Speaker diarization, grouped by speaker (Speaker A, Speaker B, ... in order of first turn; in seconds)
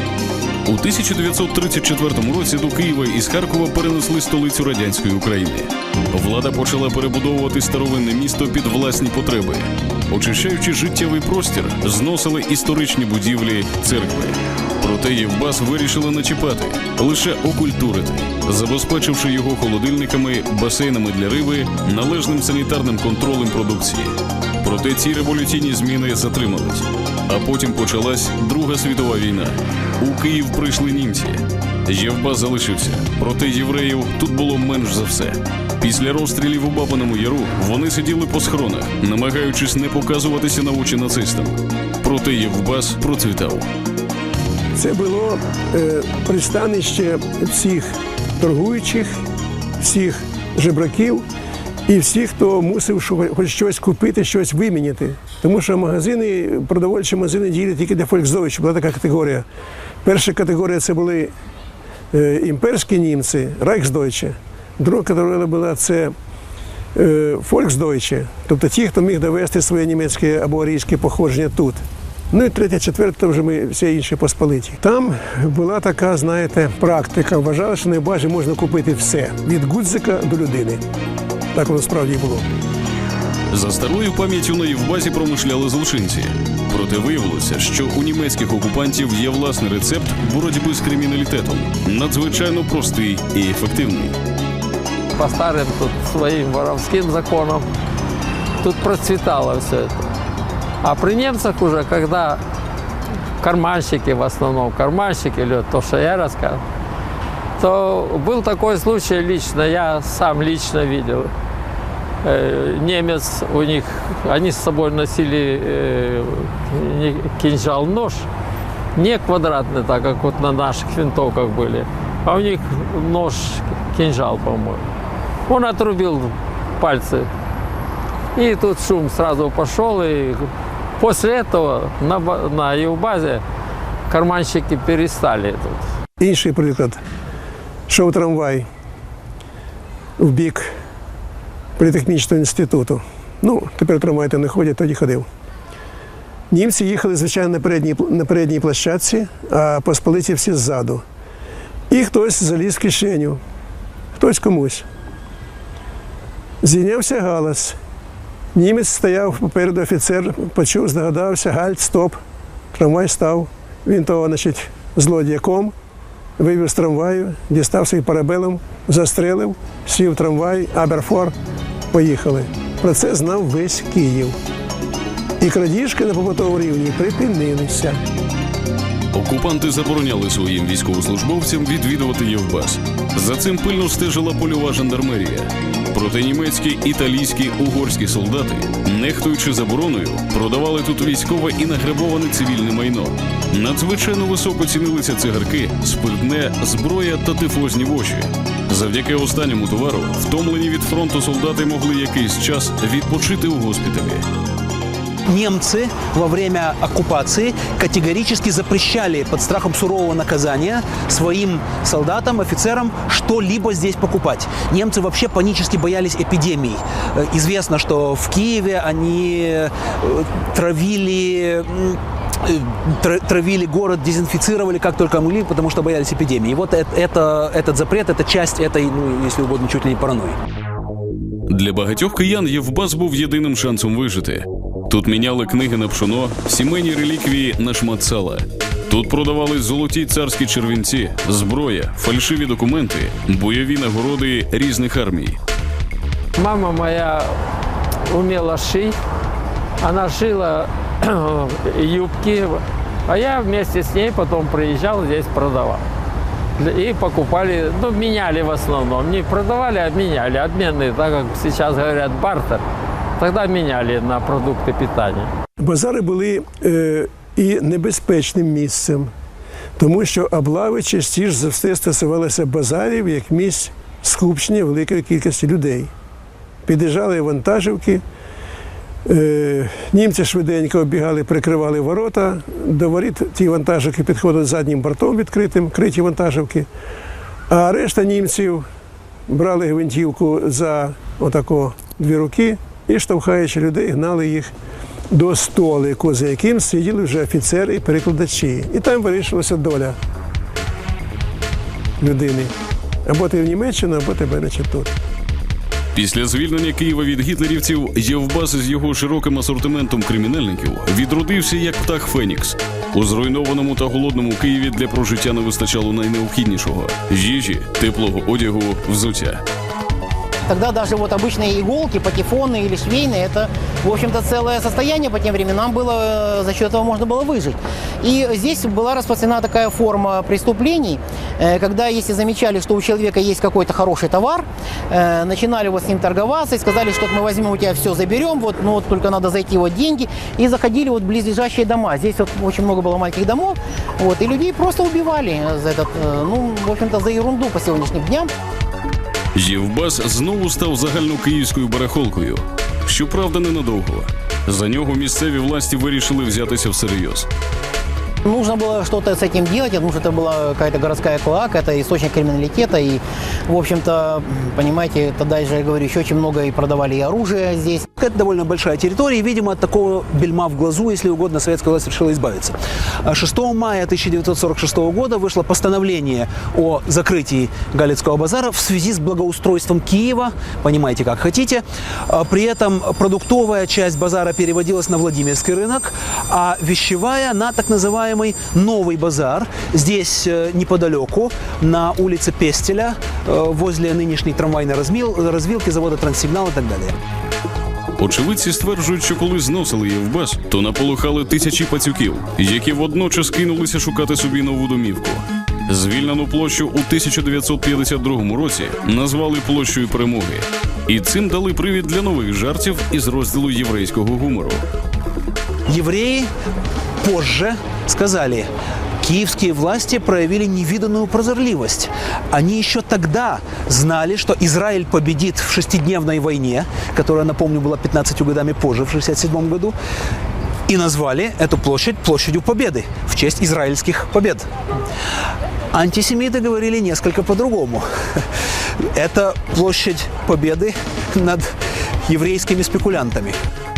Speaker A: 0.7-43.7, 83.5-94.2, 179.1-204.2, 231.5-245.4, 305.9-319.4, 349.3-357.3, 398.0-414.6
Speaker B: 44.7-49.1, 49.8-51.2, 51.9-59.4, 60.0-61.3, 62.1-66.1, 66.9-80.8, 81.5-82.5, 136.2-137.0, 137.9-138.7, 140.2-140.7, 141.8-145.3, 146.5-151.0, 151.9-153.4, 154.1-154.8, 156.6-157.8, 158.5-162.2, 162.7-165.7, 166.4-171.3, 171.9-174.3, 175.4-178.0, 265.6-269.1, 269.8-275.9, 276.6-278.0, 279.1-286.7, 287.5-288.6, 289.3-294.5, 295.1-299.9, 302.0-302.5, 303.1-304.9
Speaker C: 95.1-97.7, 98.6-100.0, 100.8-102.4, 103.4-106.6, 107.6-111.3, 112.2-118.3, 118.9-124.8, 125.5-127.3, 128.3-133.4, 134.1-135.8, 246.4-247.3, 248.1-248.9, 249.8-255.8, 256.6-262.6, 263.2-265.3
Speaker D: 205.3-230.4, 368.0-396.9, 415.7-416.3, 417.0-418.5, 419.0-429.7, 430.7-434.5, 435.7-438.2, 438.9-441.5, 442.1-443.4
Speaker E: 320.5-348.3, 358.2-367.9